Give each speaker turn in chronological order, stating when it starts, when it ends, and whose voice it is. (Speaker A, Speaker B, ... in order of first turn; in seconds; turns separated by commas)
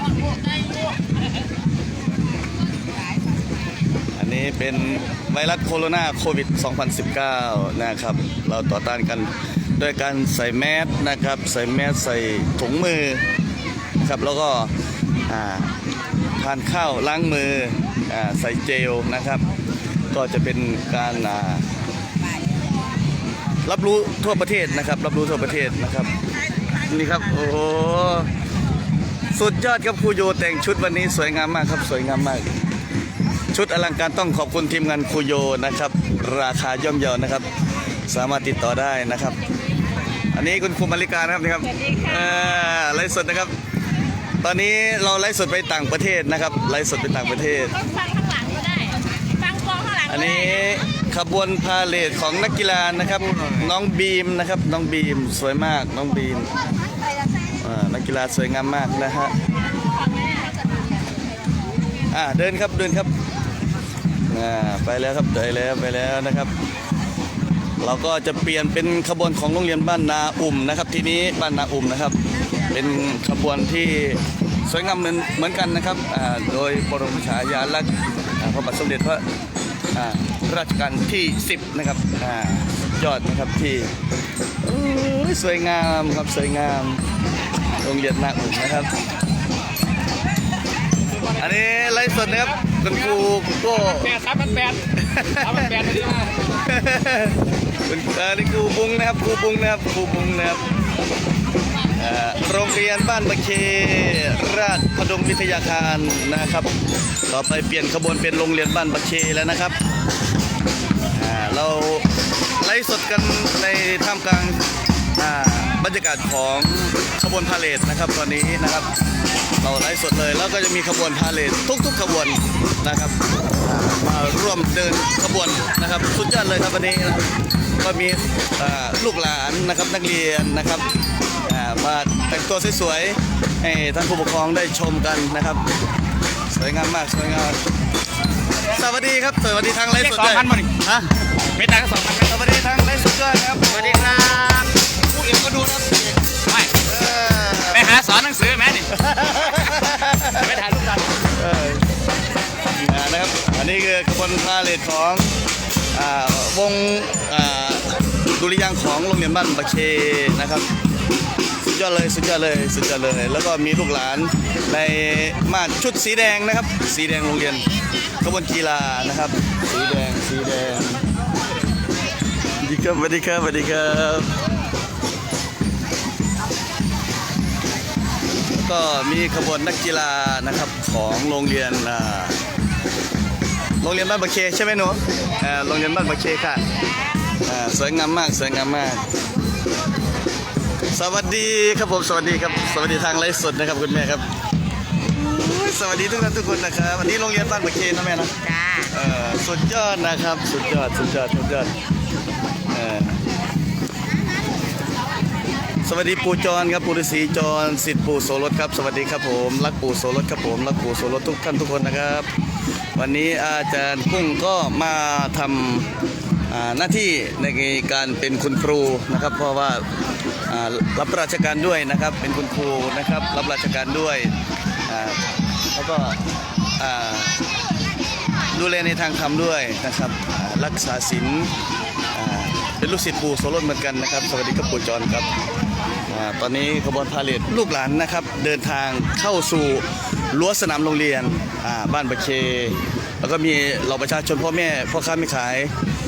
Speaker A: 4.2-13.2, Speaker A: 14.0-14.7, Speaker A: 15.3-15.7, Speaker A: 16.4-19.4, Speaker A: 20.1-21.6, Speaker A: 23.6-26.1, Speaker A: 26.8-28.3, Speaker A: 29.3-32.5, Speaker A: 33.5-37.5, Speaker A: 38.1-39.4, Speaker A: 40.3-43.5, Speaker B: 41.8-42.4, Speaker A: 44.4-47.8, Speaker B: 47.8-50.7, Speaker A: 50.1-56.5, Speaker A: 57.6-59.3, Speaker A: 62.1-63.1, Speaker A: 64.3-66.5, Speaker A: 67.8-72.2, Speaker A: 72.7-79.2, Speaker A: 79.9-83.9, Speaker A: 84.6-87.0, Speaker A: 87.8-88.9, Speaker A: 91.3-100.7, Speaker A: 102.0-106.7, Speaker A: 107.3-109.8, Speaker A: 111.1-112.1, Speaker A: 112.6-114.6, Speaker A: 115.2-118.9, Speaker A: 119.6-135.6, Speaker A: 136.5-137.6, Speaker A: 138.7-141.1, Speaker C: 140.2-140.7, Speaker C: 141.6-142.2, Speaker A: 142.0-144.6, Speaker A: 145.2-145.9, Speaker C: 146.4-146.7, Speaker A: 146.7-148.0, Speaker C: 147.9-148.9, Speaker A: 148.9-150.7, Speaker C: 150.7-151.0, Speaker A: 151.3-151.9, Speaker A: 152.7-155.3, Speaker A: 155.9-160.7, Speaker A: 161.6-167.7, Speaker A: 168.2-171.0, Speaker A: 172.6-174.3, Speaker A: 178.5-182.4, Speaker A: 183.8-186.6, Speaker A: 187.4-189.0, Speaker A: 190.9-194.3, Speaker A: 195.0-201.8, Speaker B: 198.5-198.9, Speaker A: 202.7-203.2, Speaker A: 205.8-212.3, Speaker A: 212.9-215.9, Speaker A: 216.5-219.9, Speaker A: 220.5-224.3, Speaker A: 224.9-225.2, Speaker A: 225.8-226.2, Speaker A: 226.8-227.4, Speaker A: 228.5-231.5, Speaker A: 232.1-235.3, Speaker A: 236.1-245.7